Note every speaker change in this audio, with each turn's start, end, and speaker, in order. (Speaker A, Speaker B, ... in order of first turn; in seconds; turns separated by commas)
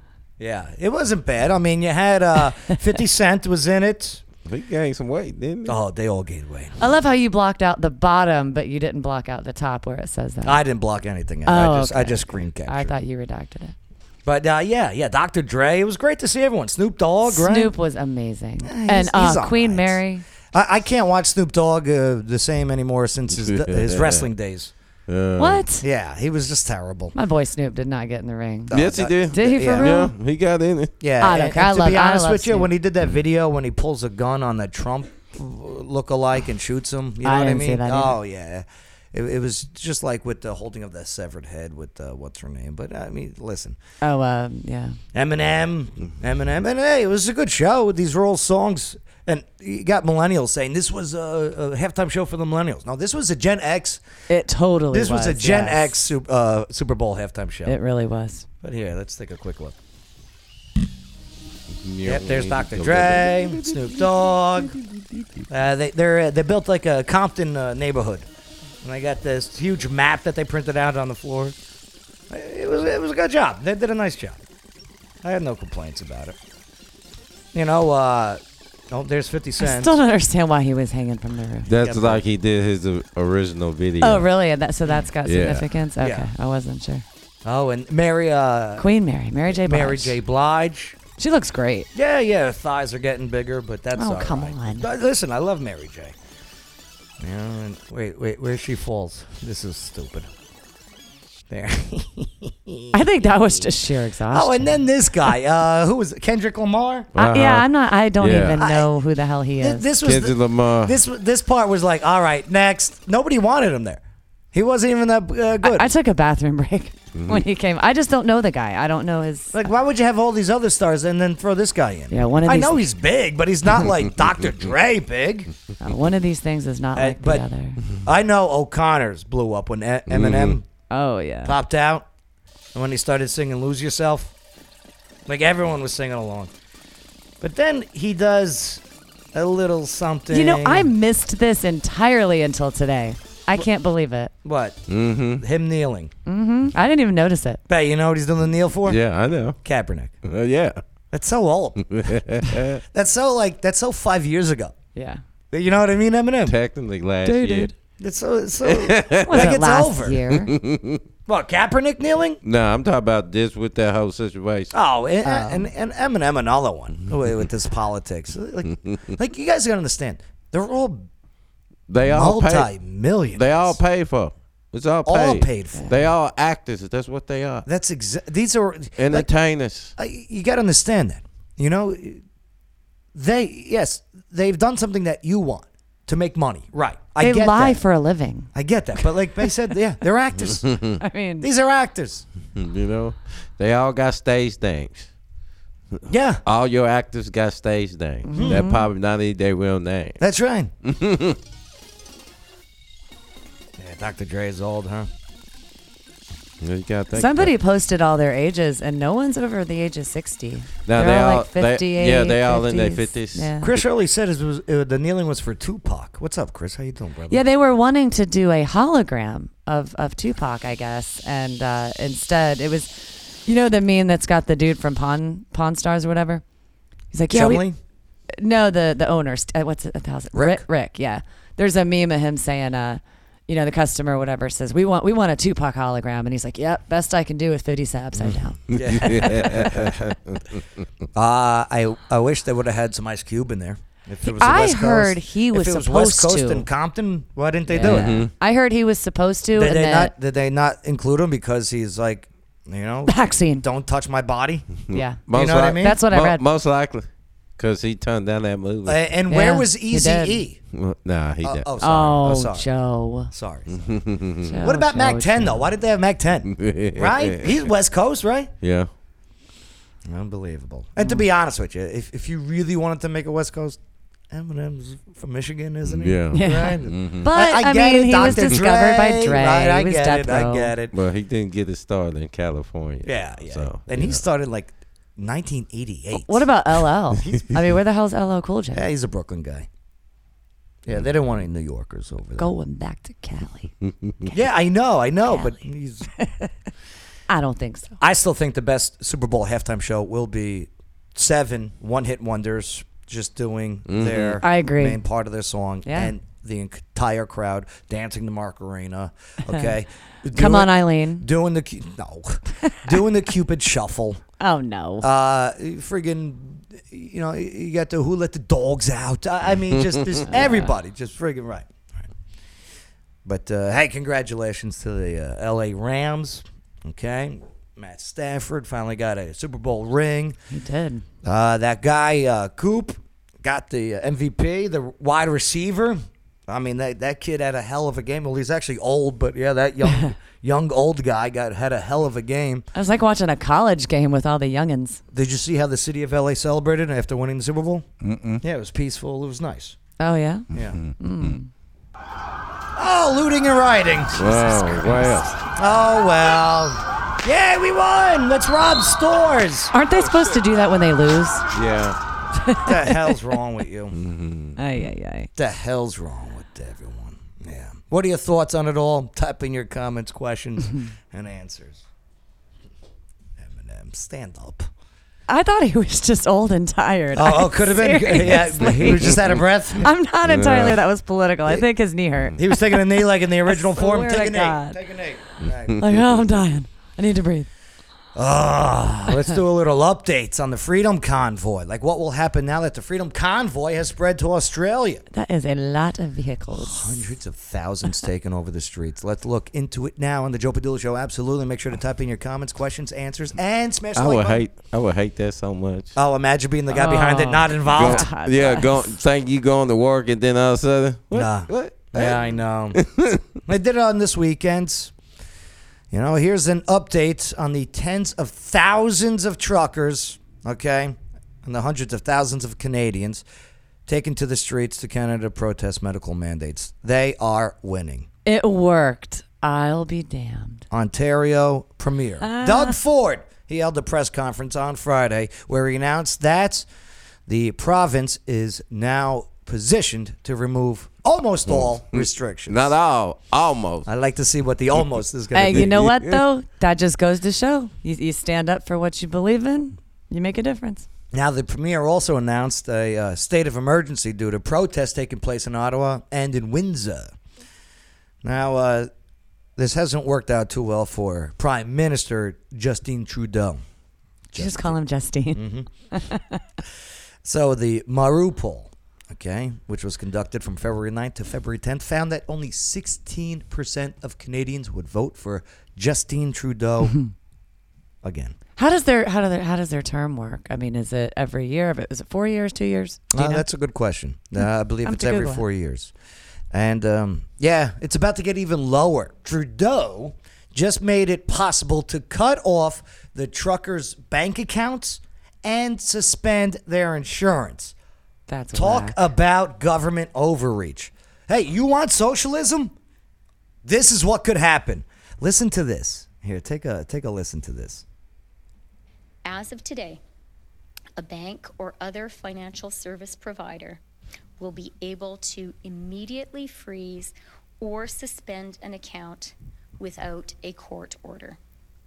Speaker A: 0.4-4.2, Speaker B: 4.4-5.8, Speaker A: 5.7-6.8, Speaker C: 6.8-10.6, Speaker A: 10.4-12.9, Speaker C: 11.4-13.7, Speaker A: 14.2-17.7, Speaker C: 17.2-20.2, Speaker A: 18.6-20.0, Speaker A: 20.5-24.7, Speaker B: 23.4-24.3, Speaker B: 25.1-25.6, Speaker C: 25.4-25.8, Speaker A: 25.8-27.1, Speaker C: 27.1-28.8, Speaker A: 28.7-30.0, Speaker B: 28.7-30.9, Speaker C: 29.3-30.1, Speaker A: 31.0-43.8, Speaker C: 31.2-32.7, Speaker C: 37.2-38.1, Speaker C: 44.0-45.0, Speaker A: 45.1-54.0, Speaker C: 54.3-55.9, Speaker A: 54.9-57.8, Speaker C: 57.6-58.5, Speaker A: 58.6-59.8, Speaker B: 61.7-65.5, Speaker A: 62.0-64.8, Speaker A: 65.5-68.3, Speaker A: 68.8-71.6, Speaker A: 72.3-74.4, Speaker A: 75.2-76.4, Speaker A: 77.5-80.0, Speaker C: 79.6-81.7, Speaker B: 81.7-84.3, Speaker A: 81.7-82.2, Speaker C: 84.0-87.0, Speaker B: 85.2-85.7, Speaker A: 86.0-86.3, Speaker A: 87.4-88.9, Speaker C: 88.8-90.2, Speaker A: 89.5-91.0, Speaker C: 91.2-91.9, Speaker A: 91.9-96.1, Speaker C: 93.9-94.9, Speaker A: 97.2-100.3, Speaker A: 101.5-103.0, Speaker C: 102.9-104.8, Speaker A: 104.3-107.1, Speaker B: 107.1-107.7, Speaker C: 107.2-109.9, Speaker B: 108.2-108.6, Speaker A: 108.6-108.9, Speaker A: 109.6-114.0, Speaker B: 110.0-111.0, Speaker A: 114.5-115.9, Speaker C: 115.6-119.6, Speaker B: 117.1-117.4, Speaker A: 119.5-125.5, Speaker C: 122.1-122.8, Speaker C: 125.8-127.8, Speaker A: 126.9-127.5, Speaker A: 128.0-130.6, Speaker B: 130.1-130.6, Speaker C: 130.9-131.5, Speaker A: 131.4-132.1, Speaker A: 132.7-134.3, Speaker A: 135.2-136.5, Speaker A: 137.4-140.9, Speaker C: 140.3-144.3, Speaker A: 144.4-146.1, Speaker B: 144.9-145.4, Speaker C: 146.2-147.6, Speaker A: 147.7-149.0, Speaker B: 148.8-149.6, Speaker A: 149.6-150.2, Speaker B: 150.2-150.8, Speaker A: 151.1-152.2, Speaker B: 151.9-152.8, Speaker A: 152.8-154.7, Speaker C: 154.9-155.2, Speaker A: 155.5-156.5, Speaker B: 156.4-157.7, Speaker C: 157.2-157.7, Speaker A: 158.0-160.3, Speaker B: 158.6-159.6, Speaker C: 159.2-160.5, Speaker B: 160.3-161.0, Speaker A: 161.2-162.4, Speaker B: 162.4-164.7, Speaker A: 164.7-171.1, Speaker C: 165.2-165.7, Speaker B: 171.9-172.7, Speaker A: 172.0-173.8, Speaker B: 173.3-177.6, Speaker A: 175.0-176.0, Speaker A: 177.6-179.3, Speaker B: 179.0-179.9, Speaker A: 180.0-182.2, Speaker A: 183.1-187.8, Speaker C: 187.2-188.5, Speaker A: 188.5-190.7, Speaker C: 189.0-189.5, Speaker B: 190.5-190.9, Speaker C: 191.0-191.5, Speaker A: 191.4-192.2, Speaker B: 192.5-195.1, Speaker A: 196.1-196.4, Speaker B: 196.4-200.2, Speaker C: 198.2-198.8, Speaker A: 198.3-198.7, Speaker A: 200.2-200.7, Speaker B: 200.8-201.4, Speaker A: 203.8-205.1, Speaker B: 206.6-207.5, Speaker C: 207.1-213.7, Speaker B: 210.8-213.5, Speaker A: 213.6-217.4, Speaker C: 217.3-226.4, Speaker C: 227.1-227.7, Speaker A: 227.3-227.8, Speaker C: 228.4-238.6, Speaker A: 230.3-230.6, Speaker A: 238.7-240.1, Speaker B: 238.7-240.6, Speaker A: 241.1-248.2, Speaker C: 244.2-246.7, Speaker C: 247.7-250.1, Speaker B: 247.8-248.3, Speaker A: 249.6-254.7, Speaker C: 253.1-253.6, Speaker B: 254.9-259.0, Speaker C: 254.9-255.2, Speaker A: 255.3-256.0, Speaker C: 255.8-256.4, Speaker A: 258.8-260.6, Speaker C: 259.3-260.4, Speaker B: 260.7-261.6, Speaker A: 261.4-262.7, Speaker C: 261.8-263.3, Speaker A: 263.3-263.9, Speaker B: 263.7-264.6, Speaker C: 264.4-265.6, Speaker A: 264.6-268.5, Speaker B: 266.5-267.6, Speaker B: 268.6-268.9, Speaker A: 270.0-273.8, Speaker A: 274.3-280.9, Speaker B: 275.9-277.3, Speaker C: 276.3-280.7, Speaker B: 278.2-278.5, Speaker B: 280.9-284.2, Speaker A: 283.0-286.5, Speaker C: 286.1-288.9, Speaker A: 288.7-289.7, Speaker A: 290.8-292.5, Speaker C: 292.4-294.4, Speaker B: 293.9-294.1, Speaker A: 294.3-296.1, Speaker C: 295.2-295.6, Speaker C: 296.1-296.5, Speaker C: 297.3-298.0, Speaker A: 298.0-314.2, Speaker B: 303.9-304.4, Speaker C: 304.4-305.0, Speaker C: 305.8-306.1, Speaker C: 310.3-311.2, Speaker C: 314.4-315.1, Speaker A: 315.0-322.1, Speaker C: 320.3-320.7, Speaker A: 323.2-330.4, Speaker C: 330.5-331.0, Speaker A: 331.2-342.6, Speaker C: 342.7-345.0, Speaker A: 345.1-347.9, Speaker B: 348.0-348.4, Speaker A: 348.4-349.8, Speaker C: 350.0-351.5, Speaker A: 350.5-350.8, Speaker B: 350.5-351.4, Speaker A: 352.7-354.8, Speaker B: 354.1-355.3, Speaker C: 354.7-355.1, Speaker A: 355.4-359.7, Speaker C: 359.7-361.4, Speaker B: 361.5-362.0, Speaker C: 362.4-363.2, Speaker A: 362.6-363.9, Speaker B: 363.9-364.6, Speaker C: 364.6-365.3, Speaker A: 365.4-371.8, Speaker A: 373.4-374.7, Speaker C: 375.3-379.2, Speaker A: 377.1-379.9, Speaker B: 378.9-379.1, Speaker C: 379.8-384.8, Speaker B: 380.2-380.8, Speaker A: 382.4-385.8, Speaker B: 385.4-385.8, Speaker C: 385.8-387.5, Speaker A: 388.1-395.0, Speaker C: 395.1-397.0, Speaker A: 396.5-404.4, Speaker B: 403.9-405.9, Speaker A: 405.9-408.1, Speaker C: 406.7-408.8, Speaker B: 407.7-412.2, Speaker A: 411.1-412.8, Speaker B: 412.7-413.2, Speaker A: 413.4-414.9, Speaker A: 415.9-423.2, Speaker A: 423.9-428.1, Speaker C: 428.2-430.6, Speaker A: 430.7-436.7, Speaker C: 432.2-432.8, Speaker A: 437.3-442.7, Speaker B: 441.5-443.9, Speaker A: 443.9-446.0, Speaker C: 445.3-450.9, Speaker B: 445.5-446.0, Speaker A: 451.1-457.1, Speaker A: 458.2-458.9, Speaker A: 459.6-463.6, Speaker A: 464.3-464.8, Speaker C: 464.3-466.4, Speaker A: 465.3-465.7, Speaker A: 467.2-476.9, Speaker A: 478.0-478.4, Speaker C: 478.6-483.4, Speaker A: 483.1-485.9, Speaker C: 484.8-485.4, Speaker A: 486.5-497.7, Speaker C: 498.3-499.0, Speaker A: 498.5-502.7, Speaker A: 503.6-507.8, Speaker D: 509.2-510.0, Speaker D: 511.0-513.8, Speaker D: 514.4-521.4